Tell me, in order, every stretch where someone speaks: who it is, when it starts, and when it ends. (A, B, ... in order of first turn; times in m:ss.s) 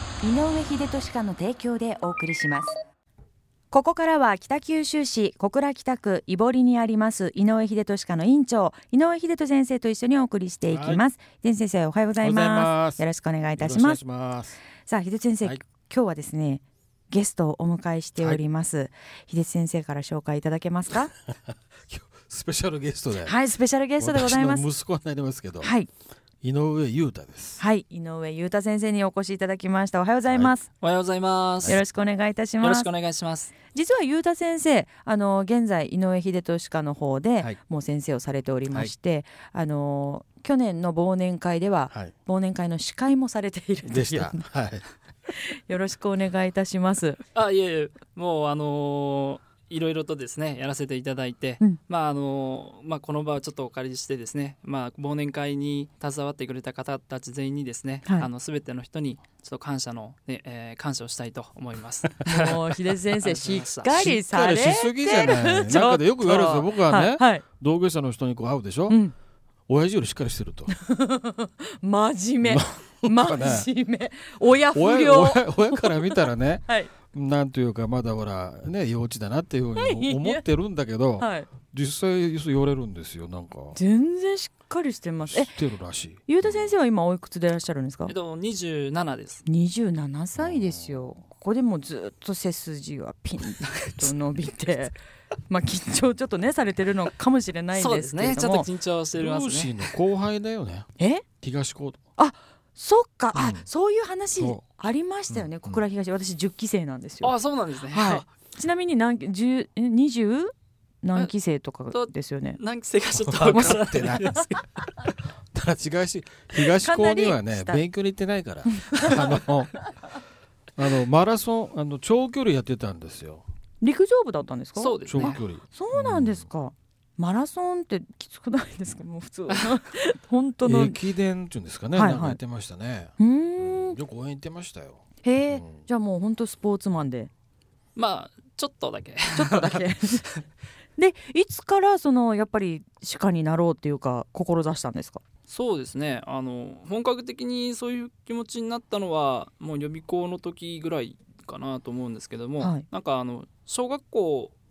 0:00.2-0:02.8 A
0:03.7-0:14.0 A
0:10.7-0:11.0 B
0:12.2-0:13.0 B
0:13.6-0:14.6 B
0:14.8-0:21.1 A
0:21.9-0:23.4 B
0:23.2-0:24.6 A
0:24.0-0:25.7 B
0:25.6-0:25.9 A
0:26.4-0:27.6 B
0:27.6-0:30.7 A
0:30.8-0:31.8 C
0:31.7-0:32.9 A
0:32.6-0:33.5 C
0:33.7-0:44.4 A
0:43.8-0:44.8 B
0:45.3-0:47.2 A
0:47.4-1:04.0 C
1:02.2-1:07.4 A
1:03.9-1:09.0 B
1:08.9-1:09.1 A
1:09.7-1:10.7 B
1:10.8-1:16.9 A
1:12.4-1:13.7 B
1:14.7-1:23.8 B
1:19.8-1:20.4 A
1:21.2-1:21.5 A
1:23.8-1:25.6 A
1:25.3-1:26.7 B
1:26.3-1:28.1 A
1:28.1-1:29.4 C
1:29.5-1:35.0 A
1:30.4-1:31.1 B
1:33.8-1:34.1 C
1:35.5-1:38.7 A
1:37.7-1:39.9 C
1:39.2-1:40.9 B
1:41.0-1:41.2 A
1:41.4-1:42.0 B
1:42.2-1:47.3 A
1:43.3-1:43.7 B
1:44.4-1:44.6 B
1:45.3-1:45.8 B
1:47.2-1:48.3 C
1:47.9-1:52.6 A
1:51.9-1:54.9 C
1:53.1-1:54.4 B
1:55.5-1:59.8 B
1:56.8-1:57.8 A
1:58.7-1:59.2 A
2:00.8-2:03.4 B
2:03.8-2:11.0 A
2:04.8-2:05.4 C
2:05.1-2:06.4 B
2:10.6-2:15.8 B
2:11.9-2:12.4 A
2:13.2-2:14.0 A
2:15.2-2:17.3 A
2:18.0-2:20.4 C
2:19.3-2:20.2 A
2:21.0-2:25.2 A
2:25.5-2:34.5 C
2:32.6-2:32.8 A